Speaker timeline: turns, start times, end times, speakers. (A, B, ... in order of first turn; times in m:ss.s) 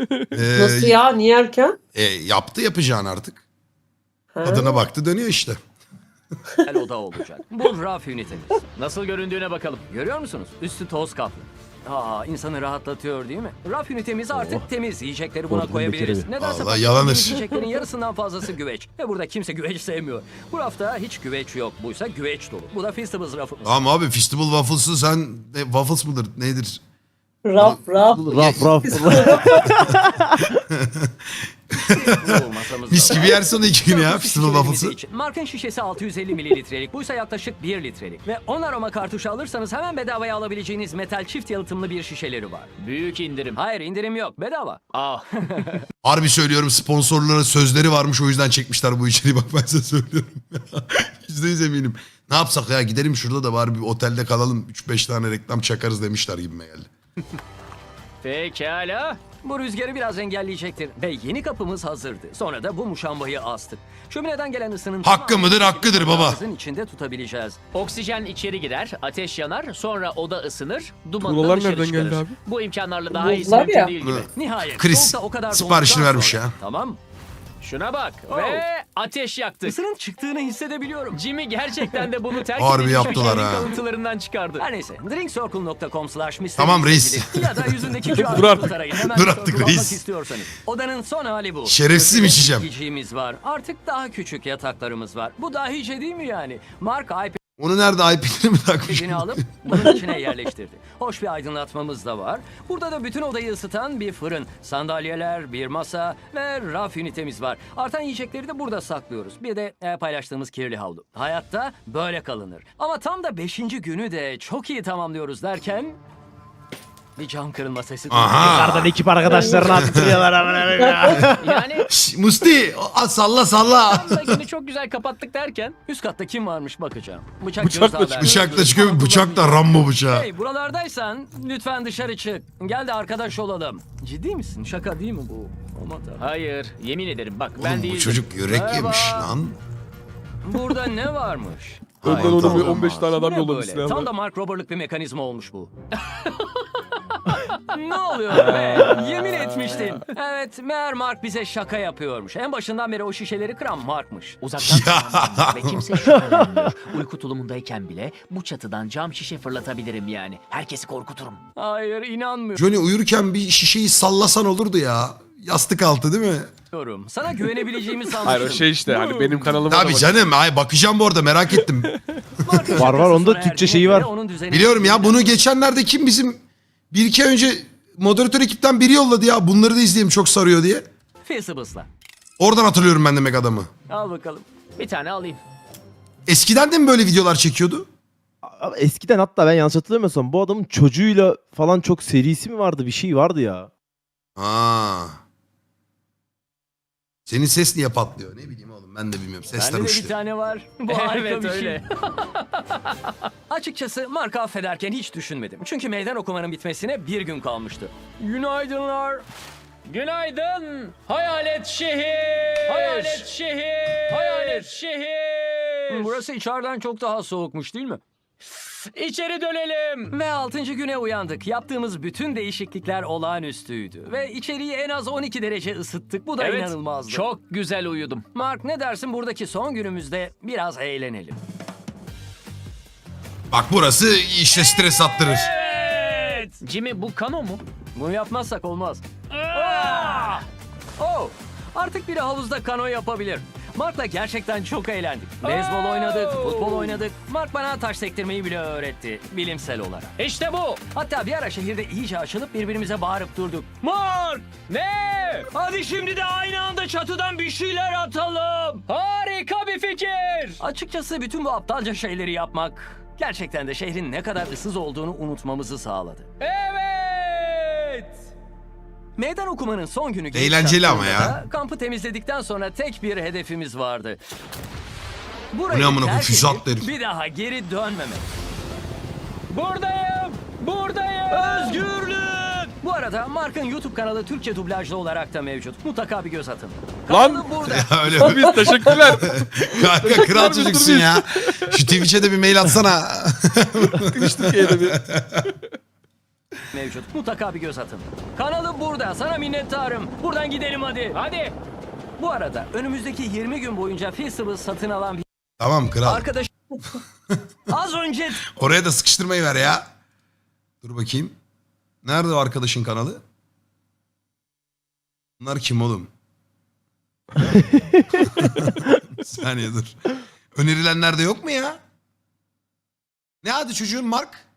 0:00.3-0:01.0 A
0:00.5-0:01.8 B
0:02.0-0:03.4 A
0:04.4-0:04.8 B
0:04.4-0:05.6 A
0:06.6-0:08.6 C
0:08.8-0:09.8 D
0:09.9-0:23.8 C
0:14.3-0:14.7 E
0:15.5-0:16.3 E
0:16.4-0:17.4 A
0:23.6-0:26.8 A
0:27.4-0:29.7 B
0:27.6-0:29.6 A
0:28.1-0:30.5 E
0:30.5-0:32.4 A
0:31.8-0:42.7 C
0:32.9-0:35.0 A
0:42.8-0:43.6 D
0:43.6-0:44.8 C
0:44.9-0:45.4 D
0:45.4-0:45.8 C
0:46.0-0:56.9 A
0:58.2-0:59.2 D
0:59.4-1:07.6 C
1:05.0-1:06.4 A
1:07.7-1:14.3 D
1:11.2-1:12.4 F
1:13.1-1:13.9 B
1:14.0-1:16.6 A
1:14.4-1:17.0 C
1:17.6-1:19.8 D
1:18.3-1:18.6 C
1:19.7-1:21.2 C
1:21.1-1:24.7 D
1:22.6-1:23.7 A
1:23.0-1:23.4 C
1:24.6-1:37.4 C
1:26.6-1:28.2 A
1:28.2-1:28.8 F
1:29.1-1:30.0 A
1:31.7-1:32.7 A
1:37.6-1:39.9 A
1:38.9-1:56.0 C
1:57.2-1:58.9 C
1:58.1-1:59.0 A
1:58.4-2:01.7 E
1:59.3-1:59.8 B
1:59.8-2:00.2 A
2:00.8-2:01.3 B
2:01.4-2:01.9 D
2:01.9-2:04.4 A
2:03.9-2:05.8 D
2:05.9-2:16.3 C
2:07.6-2:08.5 F
2:08.2-2:10.3 A
2:16.2-2:18.2 D
2:17.6-2:19.6 A
2:18.5-2:19.3 C
2:20.4-2:25.7 C
2:22.0-2:22.8 A
2:22.0-2:24.1 F
2:27.7-2:34.4 C
2:28.3-2:30.0 F
2:34.4-2:41.4 D
2:34.6-2:36.0 A
2:36.1-2:36.7 E
2:41.6-2:42.6 C
2:42.6-2:46.5 A
2:46.7-2:49.5 C
2:48.2-2:50.3 F
2:49.7-2:52.0 A
2:52.4-2:55.4 C
2:52.8-2:54.1 E
2:54.5-2:56.4 A
2:56.9-3:00.9 A
3:01.2-3:01.9 C
3:02.4-3:03.7 A
3:03.9-3:04.5 C
3:04.8-3:05.4 D
3:06.3-3:07.9 A
3:08.4-3:13.7 E
3:14.4-3:15.2 A
3:17.3-3:20.1 A
3:19.6-3:21.8 C
3:20.9-3:23.1 D
3:23.5-3:29.2 C
3:29.9-3:36.2 D
3:32.5-3:33.3 C
3:33.9-3:34.7 C
3:35.9-3:38.0 C
3:38.5-3:40.1 D
3:40.1-3:47.3 C
3:46.4-3:48.2 D
3:48.4-3:51.4 C
3:53.5-3:55.5 A
3:55.0-3:56.6 C
3:55.6-3:57.6 D
3:58.0-4:00.4 C
3:59.3-4:00.4 D
4:01.0-4:10.1 C
4:05.4-4:07.0 D
4:10.2-4:10.8 D
4:10.9-4:14.5 C
4:14.7-4:15.5 D
4:15.5-4:18.8 C
4:18.9-4:20.6 D
4:20.6-4:26.3 C
4:26.4-4:28.2 D
4:29.2-4:34.2 C
4:30.3-4:31.4 A
4:35.5-4:38.3 C
4:35.7-4:36.9 A
4:39.5-4:41.8 D
4:41.3-4:48.0 C
4:47.1-4:47.5 F
4:47.7-4:55.5 A
4:48.2-4:51.9 F
4:48.3-4:48.8 B
4:53.9-4:55.0 F
4:56.7-5:01.2 C
5:01.1-5:01.6 D
5:02.2-5:05.2 C
5:05.6-5:06.3 A
5:06.0-5:06.5 C
5:07.7-5:08.4 C
5:08.5-5:09.9 A
5:10.8-5:11.4 A
5:12.0-5:13.2 A
5:15.4-5:16.1 A
5:17.4-5:18.3 E
5:18.4-5:19.9 A
5:20.5-5:21.8 A
5:23.4-5:24.4 A